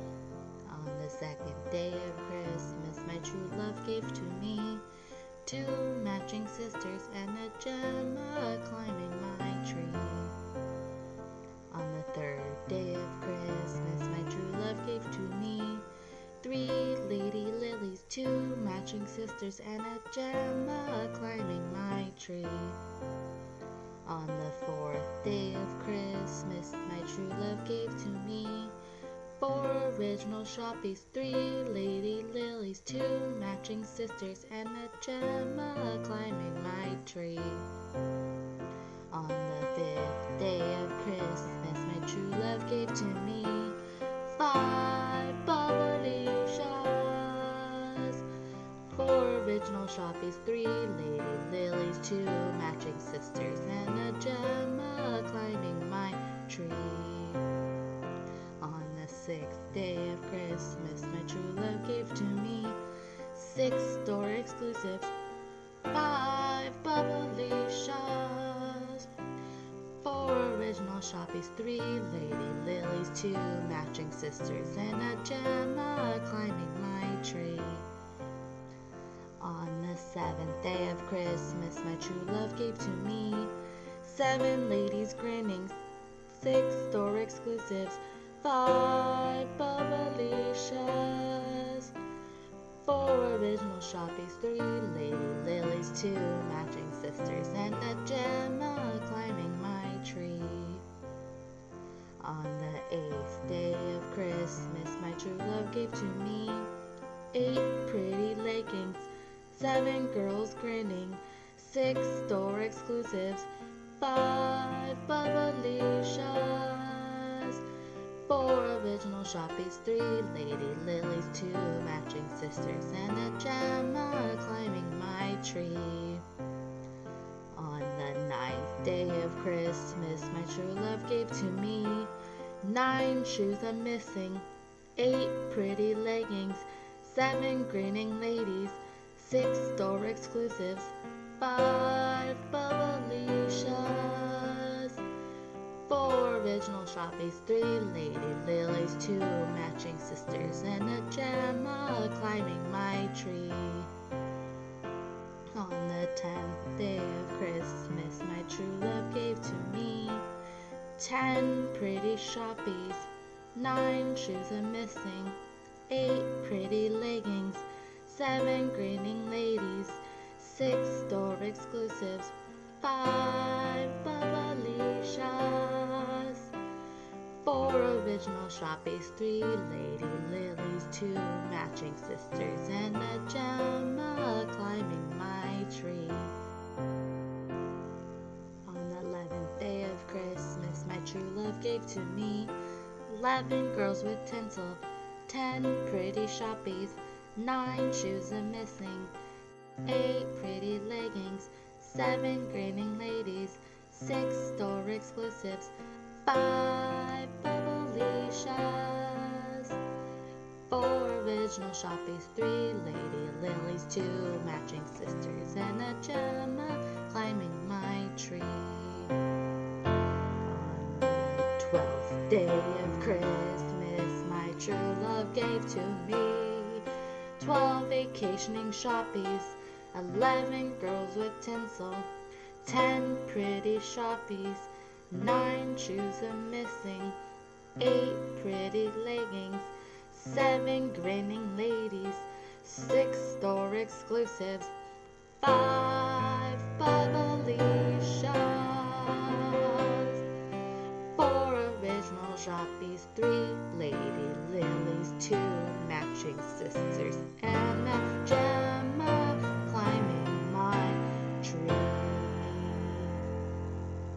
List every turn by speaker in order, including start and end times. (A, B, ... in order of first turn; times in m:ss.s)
0:00.6-0:04.8 A
0:05.4-0:10.4 A
0:11.7-0:15.8 A
0:16.4-0:22.8 A
0:24.0-0:28.8 A
0:29.4-0:37.7 A
0:39.1-0:48.2 A
0:48.9-0:57.4 A
0:58.6-1:02.8 A
1:03.3-1:05.1 A
1:05.9-1:09.1 A
1:10.0-1:17.9 A
1:19.4-1:25.8 A
1:26.3-1:31.9 A
1:32.8-1:40.8 A
1:42.2-1:46.7 A
1:47.3-1:57.6 A
1:58.3-2:06.2 A
2:07.5-2:25.0 A
2:25.9-2:33.9 A
2:35.5-2:40.3 A
2:41.0-2:45.4 A
2:45.9-2:56.5 A
2:57.4-3:06.3 A
3:08.7-3:12.5 A
3:13.1-3:19.1 A
3:19.9-3:29.8 A
3:30.7-3:39.1 A
3:40.4-3:46.8 A
3:47.4-3:52.1 A
3:52.6-3:57.2 A
3:57.8-4:04.7 A
4:05.4-4:10.2 A
4:11.2-4:23.2 A